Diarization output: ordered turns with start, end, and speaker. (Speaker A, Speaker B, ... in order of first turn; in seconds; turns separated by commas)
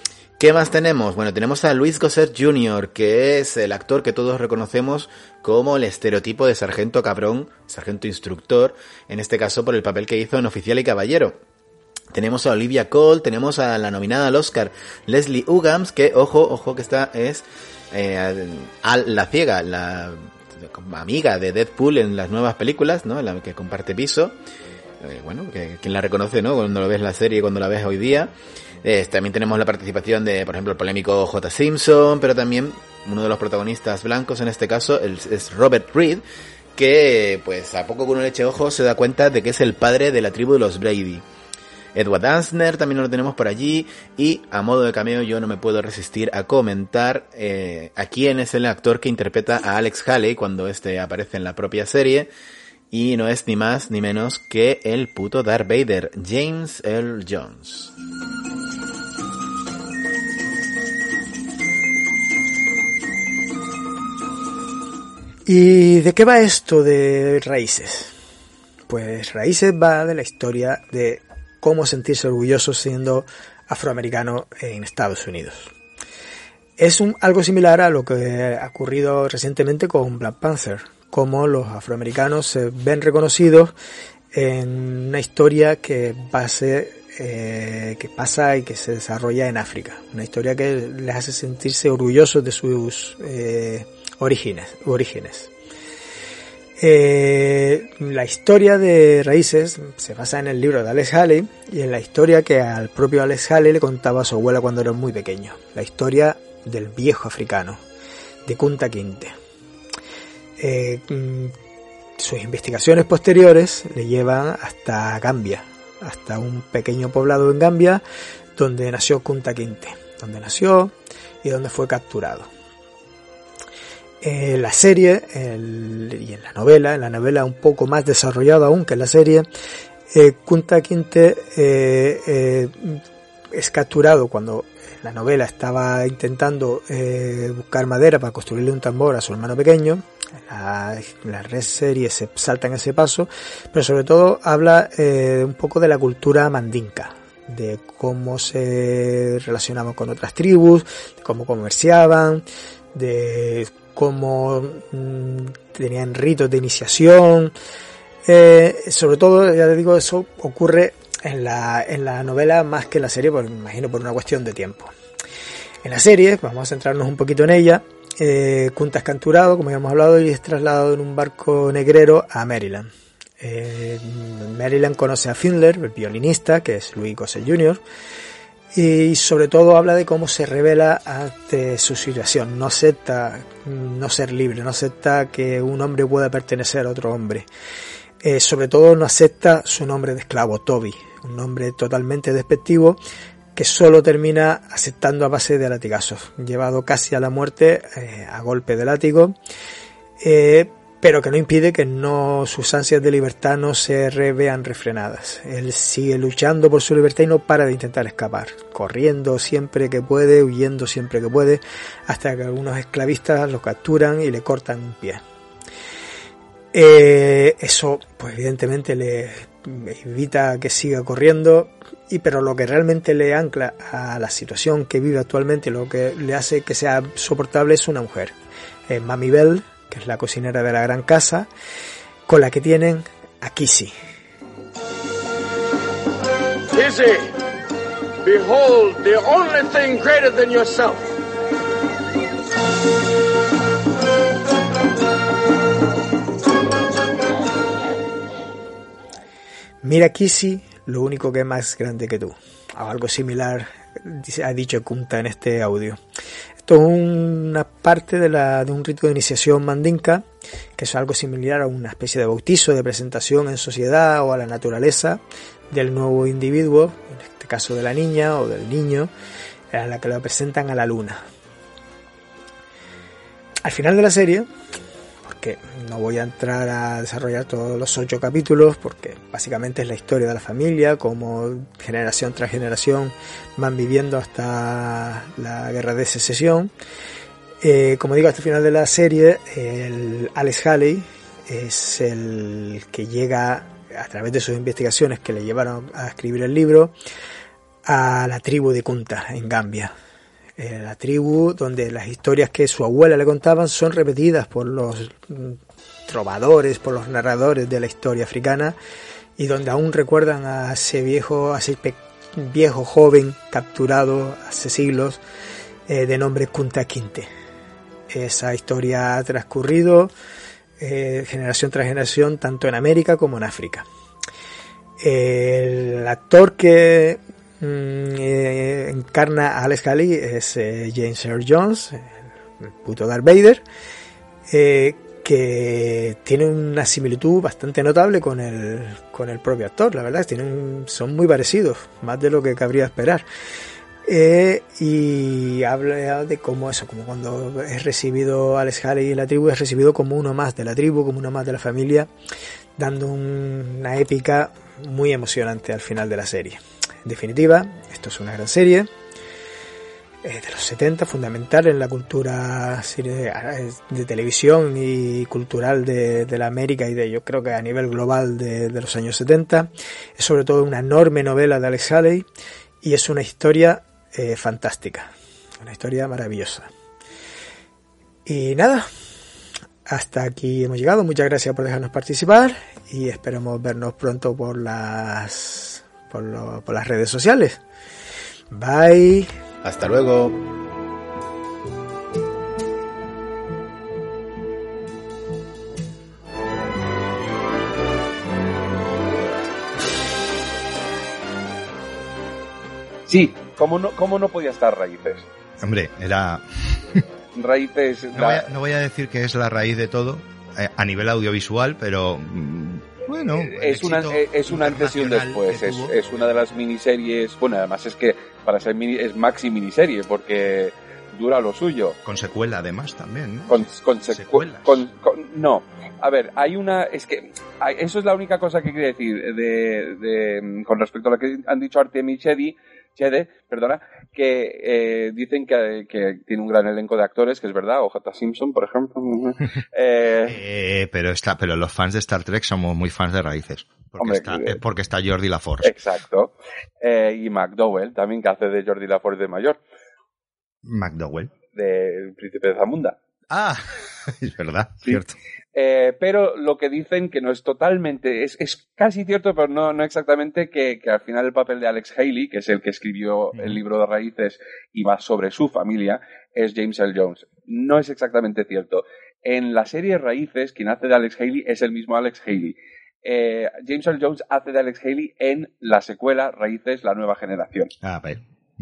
Speaker A: 0.4-11.4, Speaker A: 12.1-24.4, Speaker A: 25.0-28.3, Speaker A: 28.8-36.2, Speaker A: 36.8-41.2, Speaker A: 41.9-52.3, Speaker A: 52.9-57.9, Speaker B: 65.5-68.1, Speaker B: 68.9-75.7, Speaker B: 76.8-83.7, Speaker B: 84.3-95.5, Speaker B: 96.8-107.8, Speaker B: 108.4-109.3, Speaker B: 110.6-111.5, Speaker B: 112.2-118.0, Speaker B: 118.5-122.5, Speaker B: 124.2-129.5, Speaker B: 130.1-133.0, Speaker B: 133.5-157.5, Speaker B: 158.2-164.9, Speaker B: 165.8-177.8, Speaker B: 178.7-187.5, Speaker B: 188.2-193.0, Speaker B: 193.5-199.4, Speaker B: 200.2-215.2, Speaker B: 216.7-228.3, Speaker B: 228.9-231.5, Speaker B: 232.3-233.9, Speaker C: 236.7-237.3, Speaker C: 238.2-241.1, Speaker B: 249.8-256.0, Speaker B: 256.6-260.2, Speaker B: 260.8-269.1, Speaker B: 269.7-271.2, Speaker B: 273.6-274.5, Speaker B: 275.2-286.7, Speaker B: 287.6-296.9, Speaker B: 297.8-299.9, Speaker B: 300.6-308.8, Speaker B: 309.4-315.2, Speaker B: 315.9-317.3, Speaker B: 318.1-320.1, Speaker B: 320.8-323.9, Speaker B: 325.0-333.6, Speaker B: 334.5-343.3, Speaker B: 344.1-352.1, Speaker B: 352.8-358.9, Speaker B: 360.2-372.3, Speaker B: 372.8-376.7, Speaker B: 378.2-378.9, Speaker B: 379.9-387.6, Speaker B: 388.5-389.3, Speaker A: 389.6-390.4, Speaker D: 403.1-405.3, Speaker E: 405.6-407.0, Speaker D: 407.3-408.4, Speaker E: 408.1-416.2, Speaker D: 413.4-422.0, Speaker E: 422.0-424.8, Speaker D: 423.5-440.4, Speaker E: 440.3-445.7, Speaker D: 444.0-444.6, Speaker D: 445.6-449.6, Speaker E: 450.6-451.3, Speaker D: 451.5-453.0, Speaker E: 453.3-455.1, Speaker D: 455.5-477.7, Speaker E: 477.8-478.2